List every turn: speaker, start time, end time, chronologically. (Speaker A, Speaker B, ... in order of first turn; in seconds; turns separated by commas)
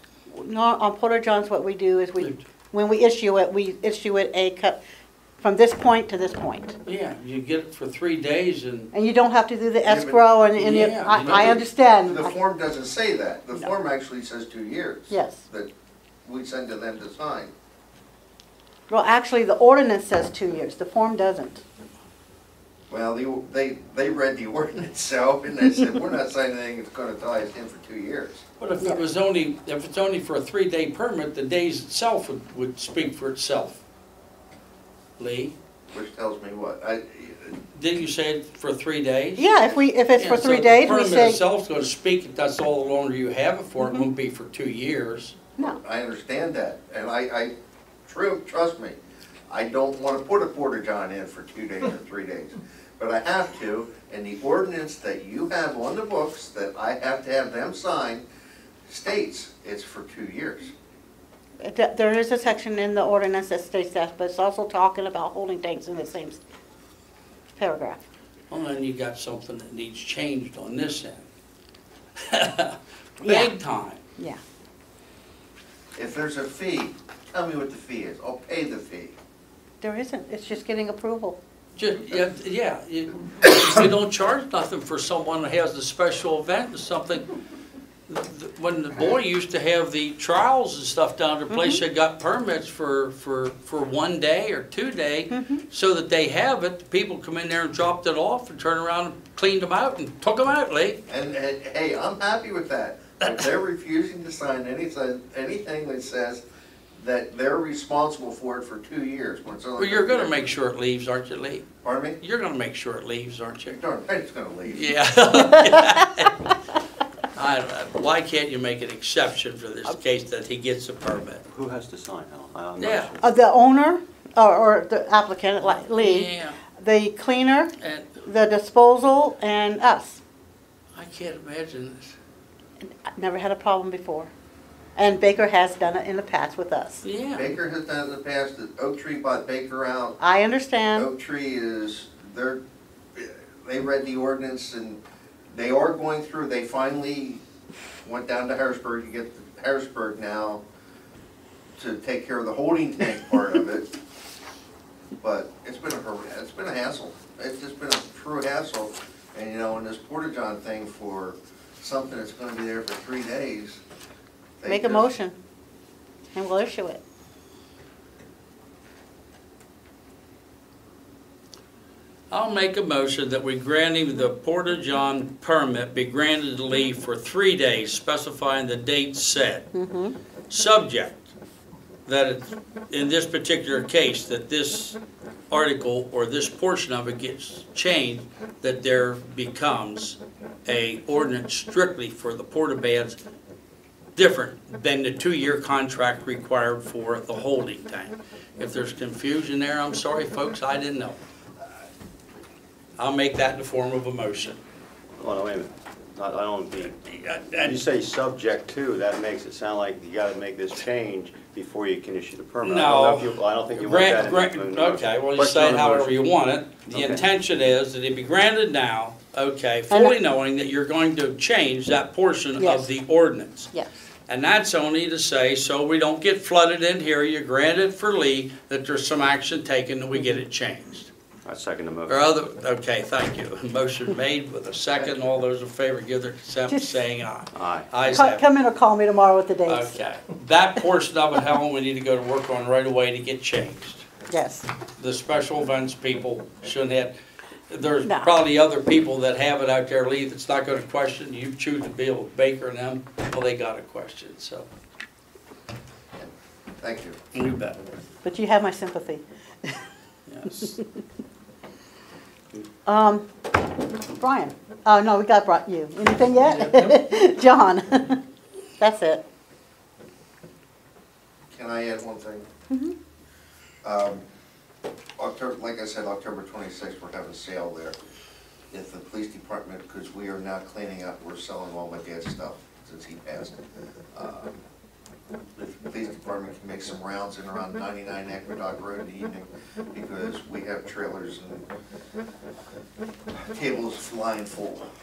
Speaker A: 0.3-4.8, Speaker A: 5.4-6.8, Speaker B: 6.9-8.9, Speaker A: 8.9-12.3, Speaker C: 9.9-10.2, Speaker B: 10.6-11.5, Speaker C: 11.2-15.7, Speaker A: 15.1-15.4, Speaker C: 16.2-17.5, Speaker A: 18.9-21.6, Speaker C: 22.9-28.4, Speaker B: 28.6-33.8, Speaker B: 35.2-35.5, Speaker C: 35.9-37.6, Speaker B: 37.7-39.5, Speaker A: 39.4-41.4, Speaker B: 40.2-45.4, Speaker C: 45.6-47.5, Speaker C: 48.1-49.0, Speaker C: 49.5-58.2, Speaker C: 58.9-60.7, Speaker A: 61.6-66.4, Speaker A: 67.5-68.0, Speaker B: 68.5-71.2, Speaker B: 72.2-74.0, Speaker A: 73.2-73.5, Speaker C: 76.0-79.2, Speaker A: 79.8-81.4, Speaker B: 81.8-87.3, Speaker B: 88.1-101.0, Speaker A: 91.5-91.8, Speaker A: 95.3-95.6, Speaker C: 101.1-106.4, Speaker C: 107.0-110.5, Speaker B: 109.8-111.7, Speaker C: 111.8-112.2, Speaker B: 112.2-113.8, Speaker C: 113.7-114.9, Speaker B: 114.7-116.5, Speaker B: 117.3-121.4, Speaker D: 121.5-123.3, Speaker B: 122.8-123.1, Speaker A: 123.2-130.2, Speaker B: 126.0-126.6, Speaker B: 127.8-128.2, Speaker B: 130.9-132.2, Speaker A: 132.8-134.3, Speaker A: 135.0-137.0, Speaker B: 137.0-137.6, Speaker C: 137.3-140.2, Speaker A: 140.2-141.1, Speaker C: 140.9-142.6, Speaker C: 143.2-147.4, Speaker C: 148.0-150.6, Speaker C: 151.8-153.9, Speaker C: 155.2-163.8, Speaker C: 164.6-165.1, Speaker A: 164.7-165.4, Speaker A: 166.3-167.0, Speaker B: 172.3-179.7, Speaker A: 179.7-180.2, Speaker B: 180.5-181.3, Speaker B: 182.1-185.0, Speaker B: 185.5-193.2, Speaker B: 194.2-201.2, Speaker B: 203.0-204.6, Speaker D: 205.2-207.0, Speaker B: 206.8-207.8, Speaker D: 207.5-216.2, Speaker B: 212.6-223.7, Speaker D: 216.9-217.2, Speaker A: 219.9-220.2, Speaker A: 222.6-222.9, Speaker B: 224.3-231.1, Speaker D: 231.4-232.2, Speaker B: 232.1-238.4, Speaker A: 236.7-236.9, Speaker D: 237.5-237.9, Speaker A: 238.0-240.0, Speaker B: 239.7-244.1, Speaker A: 244.3-244.7, Speaker B: 245.0-247.2, Speaker B: 247.7-254.7, Speaker A: 248.0-248.3, Speaker C: 256.8-257.2, Speaker B: 257.3-257.8, Speaker A: 258.2-259.8, Speaker B: 260.3-260.8, Speaker A: 262.9-263.3, Speaker A: 264.1-268.2, Speaker A: 268.8-269.2, Speaker C: 271.5-272.5, Speaker A: 272.7-272.9, Speaker C: 273.8-274.2, Speaker C: 275.2-277.9, Speaker C: 278.7-283.6, Speaker C: 284.1-284.6, Speaker C: 285.6-291.7, Speaker C: 293.4-294.9